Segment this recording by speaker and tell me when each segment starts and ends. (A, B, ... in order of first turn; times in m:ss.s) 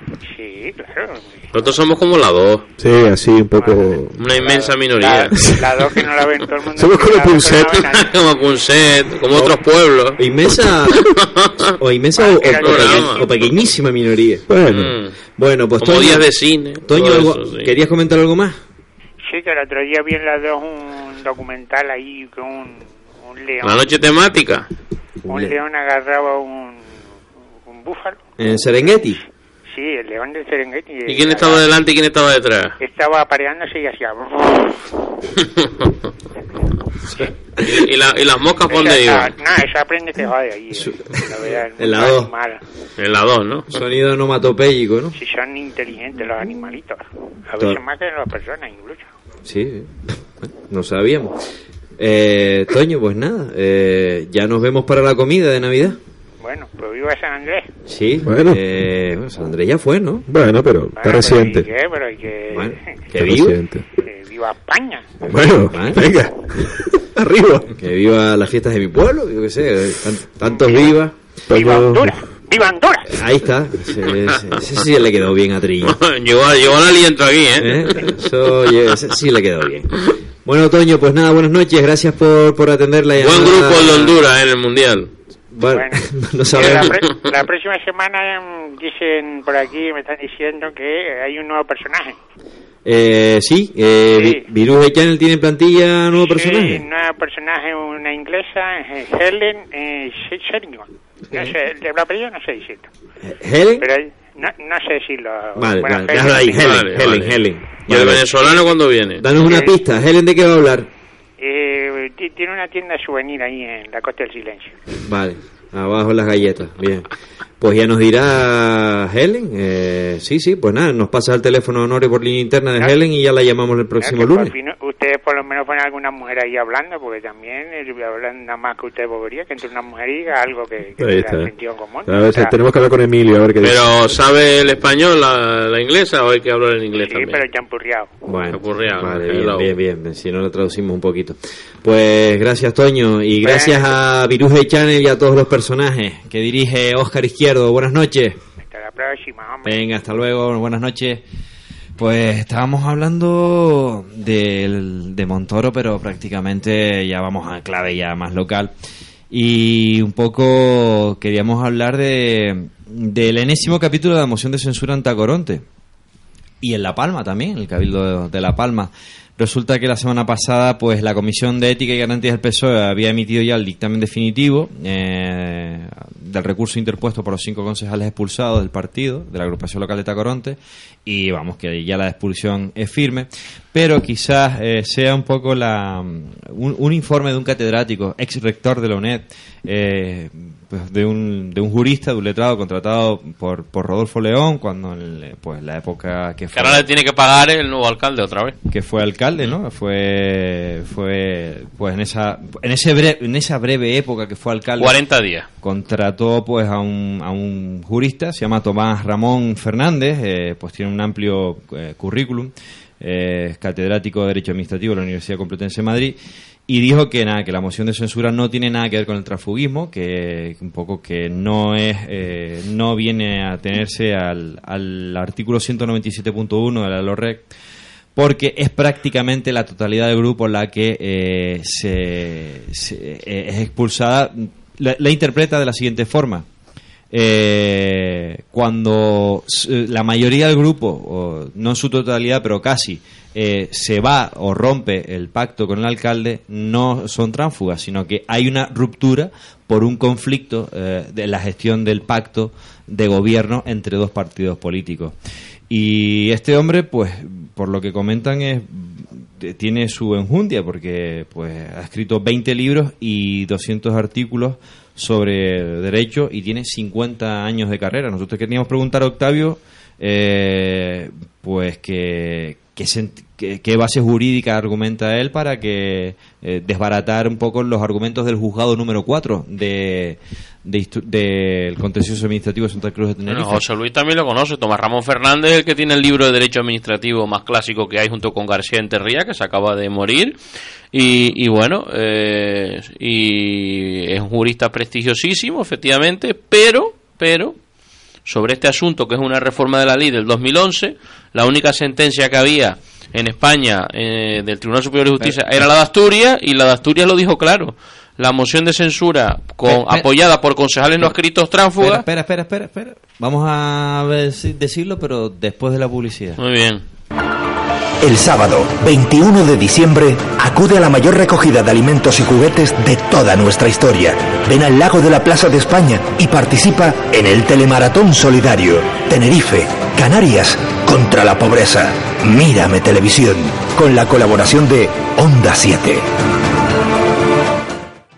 0:00.2-0:01.4 A
0:01.5-0:02.6 B
0:02.8-0:04.2 C
0:03.6-0:08.1 A
0:04.2-0:05.5 B
0:05.4-0:05.6 C
0:06.8-0:07.8 C
0:07.8-0:10.2 B
0:10.2-0:11.0 D
0:11.1-0:11.6 B
0:11.8-0:14.5 D
0:12.2-0:13.4 A
0:12.4-0:13.2 B
0:14.5-0:15.0 C
0:14.7-0:15.1 B
0:15.4-0:16.3 D
0:15.8-0:17.7 B
0:16.8-0:18.6 D
0:19.3-0:23.9 A
0:23.6-0:24.7 B
0:25.3-0:25.5 D
0:25.3-0:26.9 A
0:27.6-0:28.2 A
0:28.4-0:29.2 D
0:29.7-0:31.6 A
0:31.1-0:32.8 B
0:32.8-0:34.9 A
0:37.1-0:37.6 D
0:37.6-0:39.4 B
0:38.7-0:42.6 A
0:40.8-0:42.3 D
0:43.0-0:43.7 B
0:43.7-0:45.2 D
0:45.2-0:49.1 A
0:49.4-0:51.4 D
0:52.0-0:56.0 D
0:56.4-0:57.7 A
0:57.9-1:00.2 D
0:58.2-0:58.6 C
1:00.3-1:01.7 C
1:01.0-1:02.9 A
1:02.5-1:03.6 D
1:03.2-1:03.8 C
1:04.0-1:05.1 A
1:05.2-1:06.1 D
1:05.3-1:07.7 C
1:07.7-1:11.2 D
1:11.5-1:12.1 C
1:11.5-1:13.2 A
1:13.1-1:16.0 D
1:15.9-1:18.1 B
1:17.6-1:24.2 D
1:23.2-1:25.1 B
1:25.5-1:27.0 D
1:25.7-1:26.0 A
1:26.5-1:32.2 A
1:26.6-1:27.2 B
1:32.8-1:36.8 D
1:34.1-1:34.4 A
1:36.2-1:42.9 A
1:43.2-1:43.9 D
1:43.8-1:46.7 A
1:45.6-1:48.2 D
1:46.6-1:49.2 B
1:49.2-1:50.9 D
1:49.4-1:49.8 A
1:51.4-1:54.8 A
1:55.0-1:57.0 D
1:57.6-2:04.5 D
2:04.0-2:12.6 A
2:11.0-2:11.5 C
2:12.1-2:13.8 C
2:13.6-2:17.4 B
2:17.0-2:18.1 A
2:18.3-2:28.4 D
2:18.5-2:19.7 B
2:23.4-2:23.9 A
2:28.6-2:29.8 A
2:29.6-2:31.2 D
2:32.0-2:38.7 D
2:39.3-2:45.6 D
2:46.6-3:16.9 D
3:16.6-3:18.6 B
3:18.7-3:25.0 D
3:24.8-3:25.5 B
3:25.6-3:36.2 D
3:36.7-3:47.4 D
3:48.2-3:56.5 D
3:57.1-4:15.2 D
4:15.7-4:43.6 D
4:43.3-4:50.4 B
4:50.9-4:57.6 B
4:58.3-5:12.0 B
5:09.6-5:10.1 D
5:11.8-5:16.4 D
5:16.4-5:16.8 B
5:18.0-5:36.1 E